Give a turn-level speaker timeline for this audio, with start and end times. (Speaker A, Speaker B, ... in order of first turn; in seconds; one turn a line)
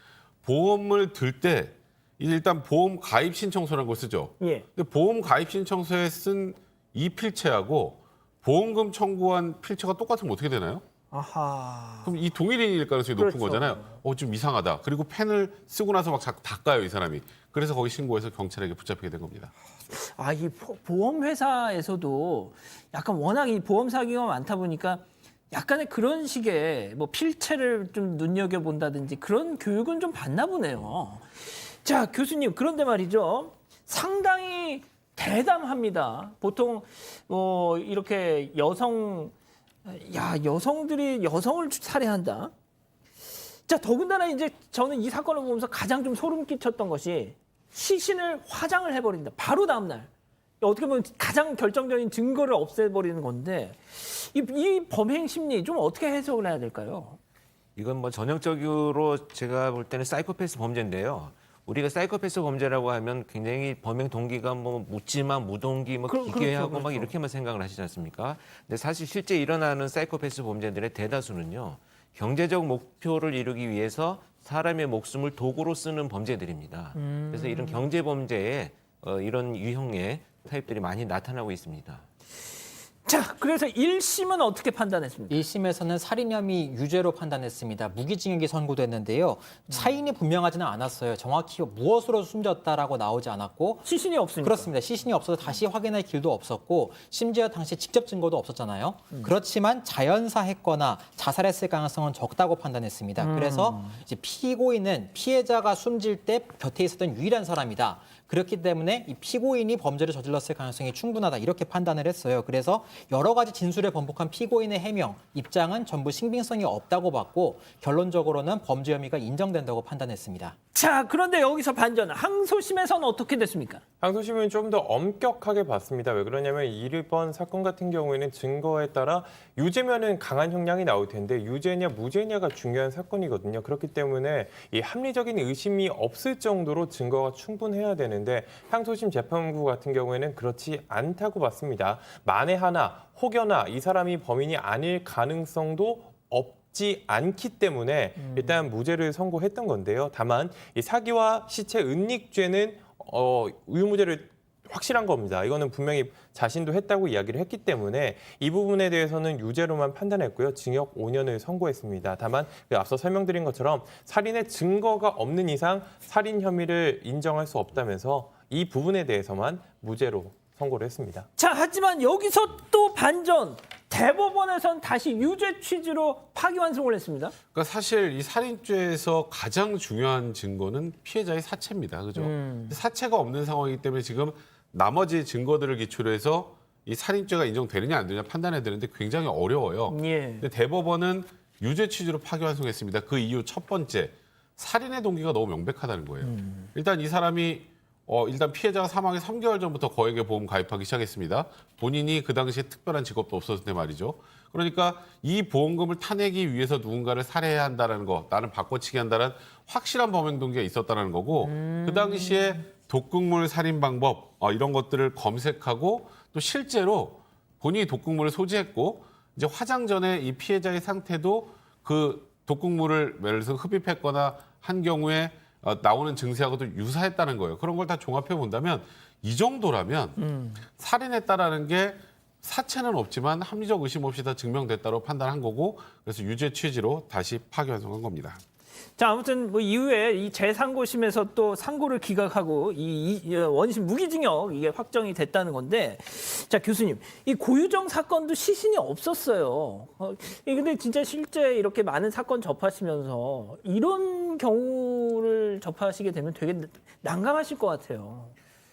Speaker A: 0.4-10.8
Speaker B: 4.4-4.7
Speaker B: 11.1-12.1
Speaker A: 12.0-19.5
Speaker B: 13.2-13.9
Speaker B: 19.9-39.3
Speaker B: 39.8-42.5
Speaker B: 43.7-50.1
Speaker B: 50.6-57.2
Speaker C: 57.8-82.0
Speaker B: 66.1-67.1
Speaker B: 76.9-77.8
Speaker B: 83.0-85.3
Speaker D: 85.3-93.9
Speaker B: 93.8-94.7
Speaker D: 94.4-120.5
Speaker B: 103.2-104.0
Speaker B: 120.7-123.8
Speaker E: 124.0-171.3
Speaker B: 171.4-177.3
Speaker A: 177.5-238.4
Speaker B: 182.2-182.8
Speaker B: 189.9-190.5
Speaker B: 196.2-196.7
Speaker B: 211.6-212.4
Speaker B: 230.2-230.6
Speaker B: 239.0-258.3